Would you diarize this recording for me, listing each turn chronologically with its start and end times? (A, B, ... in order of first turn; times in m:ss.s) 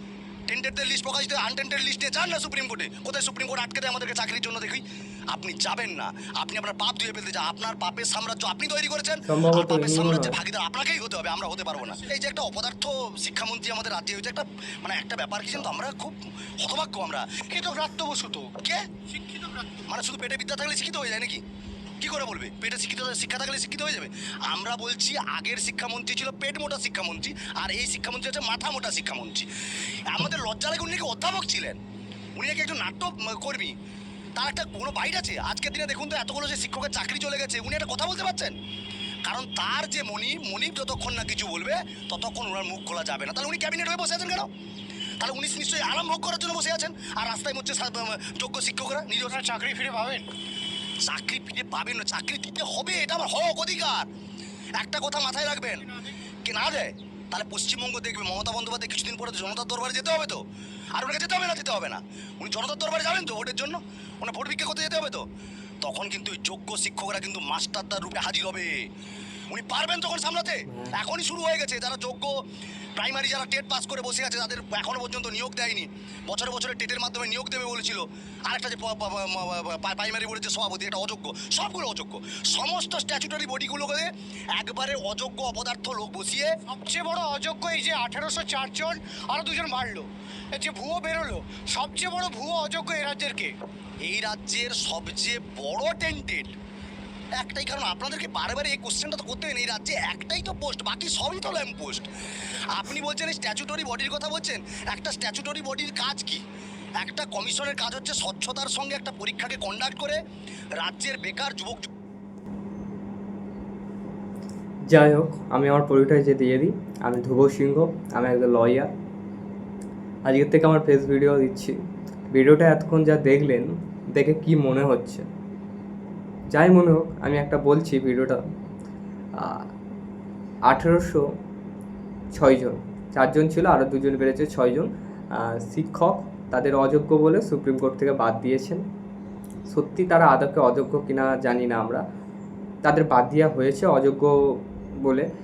0:00.5-0:17.6 A
0:09.3-0:10.4 B
0:17.7-0:18.5 C
0:18.5-0:18.8 A
0:19.2-0:19.7 C
0:19.8-0:21.4 A
0:22.0-0:29.5 A
0:30.0-0:31.8 A
0:32.3-0:33.7 A
0:34.4-0:38.6 A
0:39.2-0:44.5 A
0:45.2-0:49.4 A
0:49.3-0:50.3 C
0:51.0-0:54.1 A
0:54.8-1:00.4 A
1:00.9-1:05.2 A
1:05.8-1:08.9 A
1:09.5-1:12.3 A
1:13.0-1:26.5 A
1:26.7-1:33.5 C
1:34.0-1:36.5 A
1:37.4-1:46.4 A
1:47.0-1:50.2 A
1:50.8-1:51.9 A
1:54.9-1:58.9 B
2:00.2-2:01.8 B
2:02.3-2:05.2 B
2:06.5-2:08.4 B
2:09.3-2:09.7 B
2:10.6-2:11.3 B
2:12.3-2:18.8 B
2:19.7-2:22.0 B
2:22.8-2:25.2 B